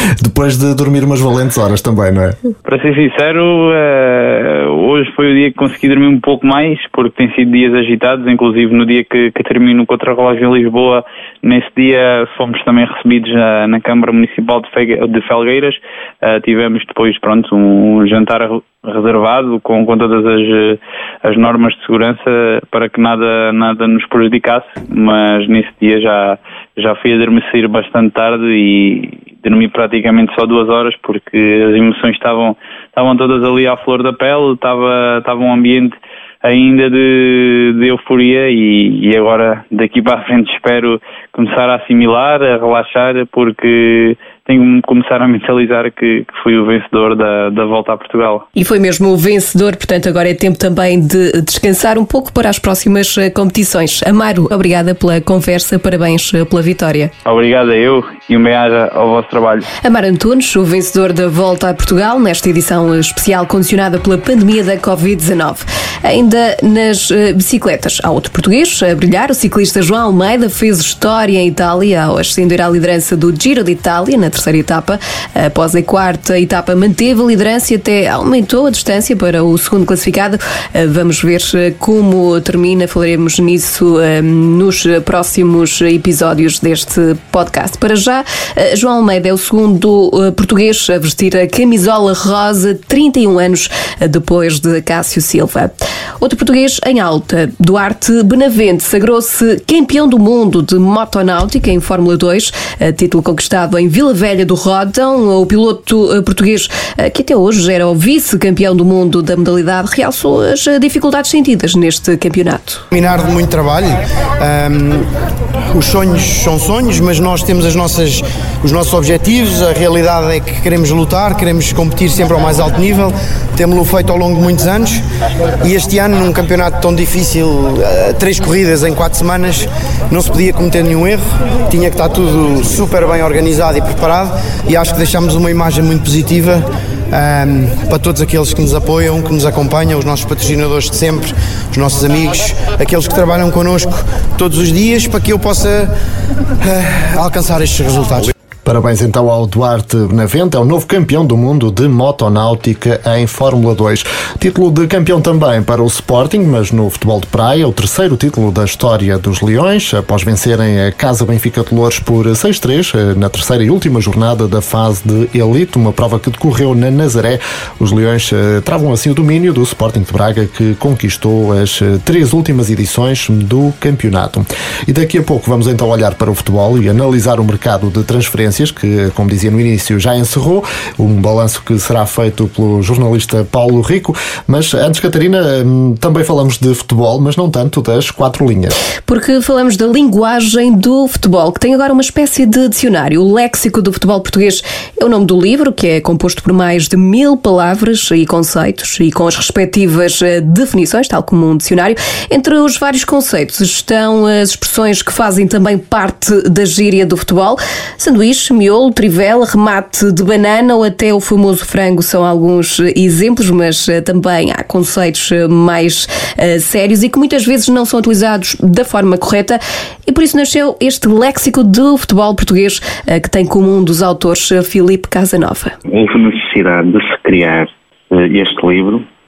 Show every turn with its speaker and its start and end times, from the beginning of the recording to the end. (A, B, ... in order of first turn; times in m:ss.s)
0:00.2-0:02.4 A
0:02.6-0:48.4 B
0:48.6-0:57.1 C
0:57.2-0:59.7 B
0:59.8-1:52.8 C
1:52.9-1:55.1 D
1:55.7-2:05.0 D
2:05.6-2:25.9 D
2:26.6-2:28.3 D
2:28.6-3:08.8 A
3:09.0-3:45.7 C
3:45.9-3:49.0 E